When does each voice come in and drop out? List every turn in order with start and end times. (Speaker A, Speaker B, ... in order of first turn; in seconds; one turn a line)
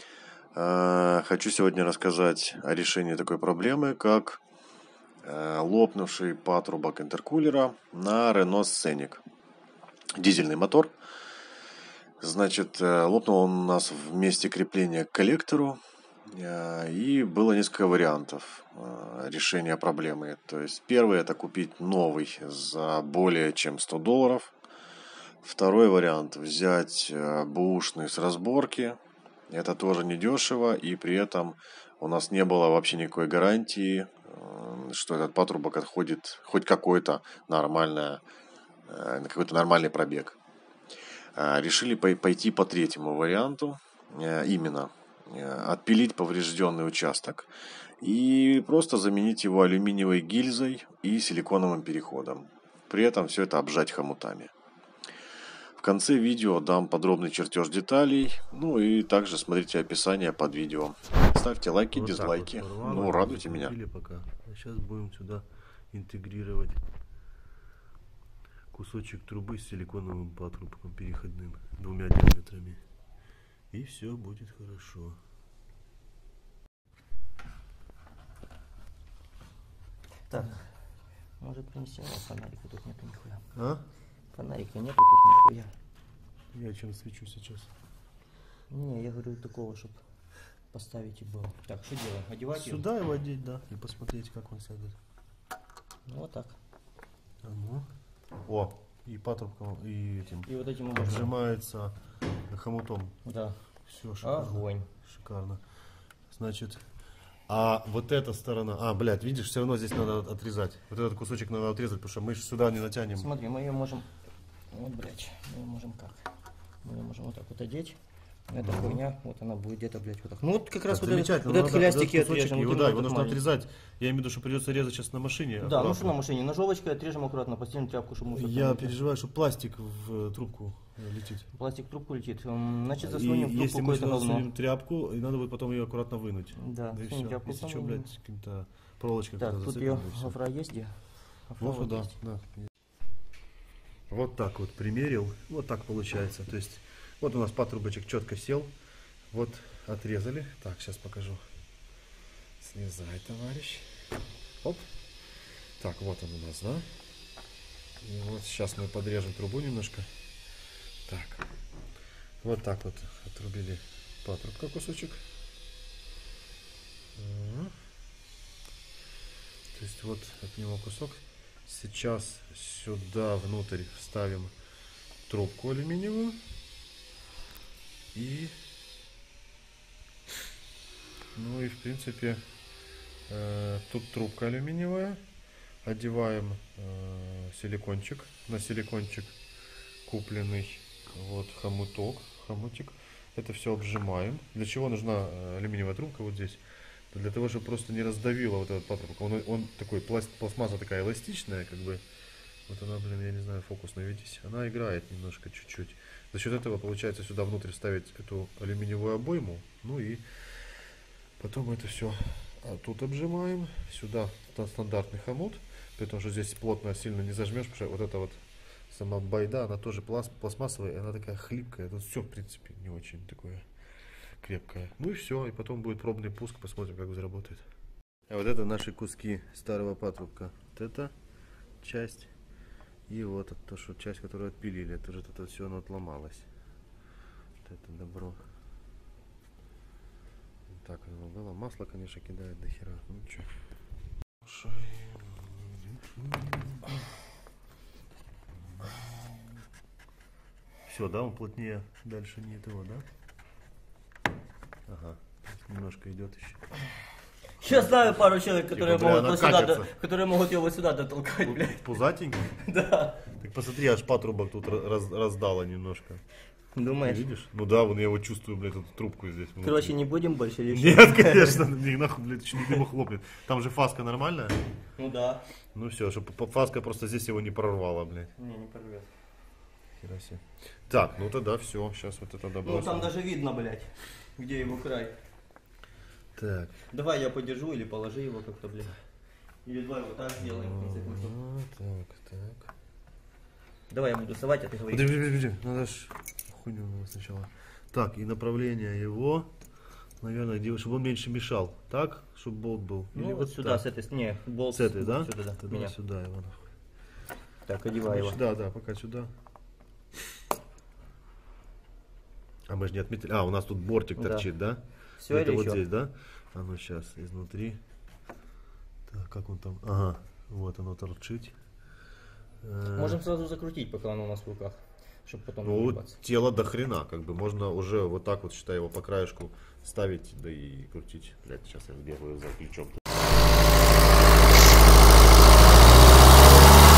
Speaker A: 0.5-4.4
Speaker A: 5.2-9.2
Speaker A: 10.1-10.9
Speaker A: 12.2-24.5
Speaker A: 25.4-38.2
Speaker A: 38.9-40.4
Speaker A: 41.3-47.5
Speaker A: 48.0-54.5
Speaker A: 55.8-63.8
Speaker B: 61.9-66.8
Speaker B: 68.7-72.8
Speaker B: 73.7-75.2
Speaker C: 80.3-80.7
Speaker C: 81.4-83.5
Speaker B: 83.5-83.8
Speaker C: 84.3-85.7
Speaker B: 86.5-87.7
Speaker C: 88.7-90.0
Speaker C: 90.7-92.8
Speaker B: 92.5-95.0
Speaker C: 96.1-96.6
Speaker B: 97.4-97.9
Speaker B: 98.4-101.9
Speaker C: 100.5-101.3
Speaker B: 102.5-103.2
Speaker C: 103.2-103.6
Speaker B: 103.9-105.6
Speaker C: 104.2-104.9
Speaker B: 106.2-106.9
Speaker B: 107.5-113.3
Speaker C: 113.1-114.1
Speaker C: 114.7-116.3
Speaker C: 116.8-118.0
Speaker C: 118.5-123.4
Speaker B: 118.6-119.0
Speaker B: 120.9-126.2
Speaker C: 125.6-129.0
Speaker B: 128.3-131.5
Speaker C: 131.5-134.5
Speaker B: 133.0-140.4
Speaker C: 136.6-138.1
Speaker C: 139.4-142.1
Speaker B: 141.6-142.7
Speaker B: 144.1-148.7
Speaker B: 149.3-151.4
Speaker B: 152.6-153.9
Speaker B: 155.8-156.8
Speaker B: 158.0-160.1
Speaker B: 161.0-161.5
Speaker B: 162.4-165.2
Speaker B: 167.2-167.7
Speaker B: 169.7-174.5
Speaker B: 175.3-176.4
Speaker B: 178.1-178.6
Speaker B: 181.3-182.4
Speaker B: 183.3-185.2
Speaker B: 185.8-189.3
Speaker B: 190.0-202.0
Speaker B: 202.7-223.7
Speaker B: 224.3-227.7
Speaker B: 228.3-231.1
Speaker B: 231.8-232.3
Speaker B: 233.1-236.5
Speaker B: 237.6-238.4
Speaker B: 240.7-243.5
Speaker B: 244.4-246.9
Speaker B: 248.7-249.0
Speaker B: 250.8-253.1
Speaker B: 254.9-256.6
Speaker C: 257.6-261.9
Speaker B: 257.6-259.9
Speaker B: 261.4-262.6
Speaker C: 262.6-263.2
Speaker B: 263.2-266.2
Speaker C: 266.7-267.2
Speaker B: 267.0-270.0
Speaker C: 269.6-271.6
Speaker B: 270.7-274.6
Speaker C: 275.0-275.4
Speaker B: 275.7-278.3
Speaker C: 278.4-279.1
Speaker B: 280.0-283.1
Speaker C: 282.6-285.2
Speaker B: 286.3-286.8
Speaker C: 286.9-289.0
Speaker C: 289.6-291.3
Speaker B: 290.4-292.7
Speaker C: 293.9-295.2
Speaker B: 294.9-299.5
Speaker B: 300.2-303.8
Speaker C: 303.1-305.9
Speaker B: 304.7-306.7
Speaker C: 307.6-308.4
Speaker B: 308.0-309.3
Speaker B: 312.7-317.8
Speaker C: 314.2-314.5
Speaker C: 315.2-315.8
Speaker B: 319.1-321.6
Speaker B: 322.6-323.2
Speaker C: 322.9-326.1
Speaker B: 325.6-333.1